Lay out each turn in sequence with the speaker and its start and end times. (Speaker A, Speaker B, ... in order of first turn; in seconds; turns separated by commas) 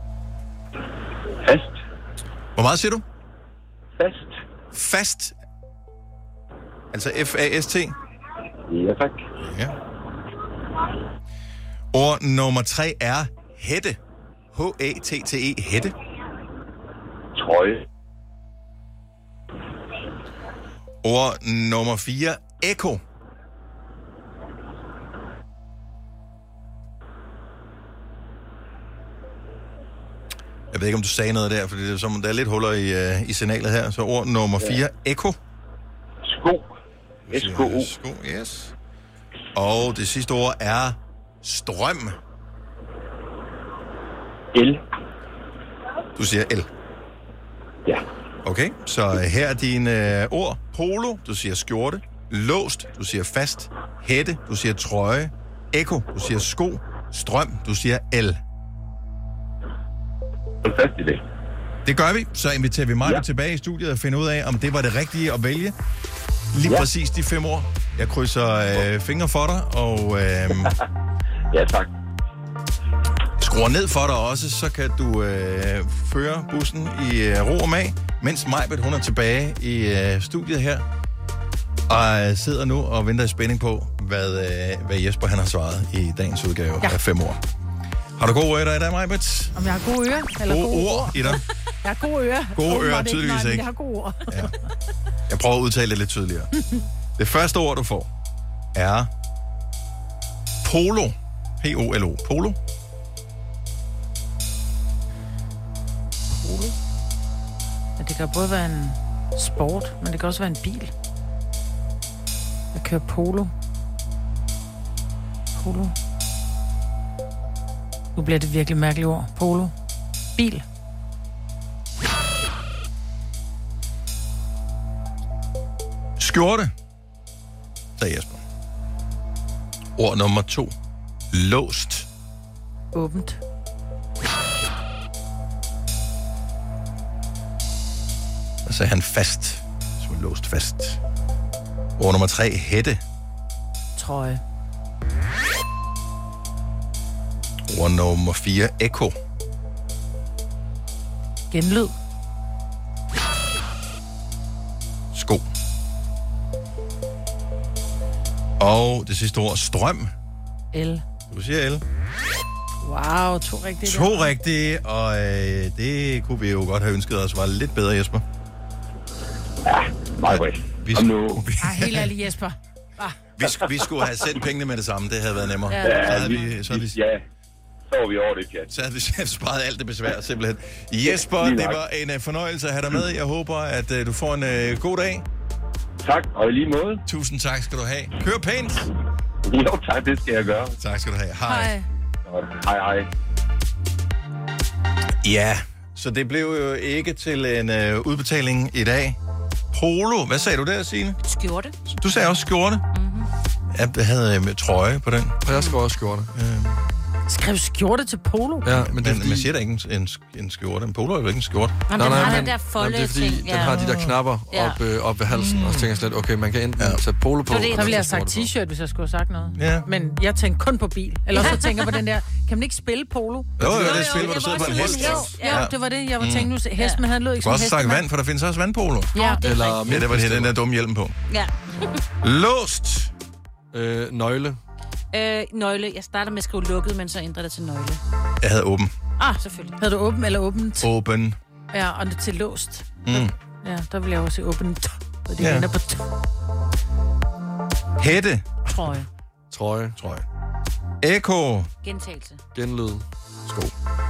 Speaker A: 1.4-1.8, Speaker B: 2.5-3.0, Speaker A: 4.0-4.3, Speaker B: 4.7-5.3, Speaker B: 6.9-7.9, Speaker A: 8.7-9.2, Speaker B: 9.4-9.8, Speaker B: 11.9-14.0, Speaker B: 14.5-15.9, Speaker A: 17.4-17.9, Speaker B: 21.0-23.0, Speaker B: 30.7-35.4, Speaker A: 36.2-36.8, Speaker B: 37.3-38.7, Speaker A: 37.3-37.9, Speaker B: 39.5-42.2, Speaker A: 44.5-44.8, Speaker B: 46.1-46.7, Speaker B: 48.4-58.4, Speaker A: 60.6-61.2, Speaker B: 61.9-65.8, Speaker B: 66.5-70.7, Speaker A: 71.5-71.9, Speaker B: 73.4-80.8, Speaker B: 81.9-87.4, Speaker B: 88.2-89.5, Speaker C: 89.5-94.5, Speaker B: 90.5-91.4, Speaker B: 92.6-93.7, Speaker B: 94.3-94.5, Speaker B: 95.3-96.5, Speaker B: 97.2-98.1, Speaker B: 98.8-99.1, Speaker B: 100.6-102.6, Speaker C: 106.3-106.7, Speaker C: 108.0-110.9, Speaker C: 112.7-113.5, Speaker C: 115.6-115.9, Speaker C: 118.2-119.7, Speaker C: 120.4-120.6, Speaker B: 126.2-126.7, Speaker B: 128.0-128.4, Speaker B: 130.0-130.7, Speaker B: 131.3-132.1, Speaker C: 132.9-133.4, Speaker B: 138.6-141.0, Speaker B: 142.0-143.0, Speaker C: 144.0-144.4, Speaker B: 147.7-149.1, Speaker C: 151.5-151.9, Speaker B: 155.1-155.5, Speaker B: 158.6-160.1, Speaker C: 160.7-161.0, Speaker B: 161.3-161.8, Speaker C: 162.8-164.3, Speaker B: 163.8-168.2, Speaker A: 169.6-171.5, Speaker B: 170.3-172.1, Speaker C: 171.6-173.2, Speaker B: 173.4-177.0, Speaker C: 175.7-176.4, Speaker A: 175.8-177.2, Speaker A: 177.9-178.7, Speaker B: 178.7-185.2, Speaker A: 181.0-181.8, Speaker A: 186.0-187.0, Speaker B: 187.1-188.9, Speaker A: 189.4-190.8, Speaker B: 190.8-191.7, Speaker C: 191.5-191.8, Speaker A: 192.2-193.1, Speaker B: 195.2-199.2, Speaker B: 199.7-201.2, Speaker D: 201.2-201.7, Speaker B: 201.9-202.8, Speaker D: 202.9-203.3, Speaker B: 203.7-205.4, Speaker E: 205.4-206.3, Speaker D: 205.5-205.8, Speaker B: 206.3-206.8, Speaker C: 207.3-208.7, Speaker E: 208.6-209.5, Speaker B: 208.7-212.3, Speaker D: 211.9-213.8, Speaker E: 211.9-218.5, Speaker B: 213.7-214.2, Speaker D: 214.5-214.8, Speaker B: 215.3-215.9, Speaker D: 217.5-218.0, Speaker C: 217.7-223.6, Speaker B: 219.6-219.9, Speaker D: 221.3-222.0, Speaker E: 223.6-224.4, Speaker B: 223.6-226.5, Speaker D: 223.6-225.7, Speaker C: 224.5-228.0, Speaker B: 227.4-229.1, Speaker C: 229.1-229.4, Speaker D: 229.1-229.8, Speaker E: 229.4-230.5, Speaker B: 229.9-231.2, Speaker D: 231.3-232.0, Speaker B: 232.2-233.1, Speaker E: 233.7-234.6, Speaker D: 235.1-238.0, Speaker B: 238.4-238.9, Speaker D: 239.2-239.8, Speaker C: 239.8-240.9, Speaker B: 240.8-241.3, Speaker C: 241.7-246.0, Speaker B: 243.0-243.3, Speaker B: 245.4-245.7, Speaker B: 248.0-248.5, Speaker C: 248.7-249.1, Speaker E: 249.5-250.0, Speaker B: 250.0-250.2, Speaker B: 251.0-251.7, Speaker D: 251.8-252.4, Speaker E: 252.5-253.0, Speaker B: 253.5-253.7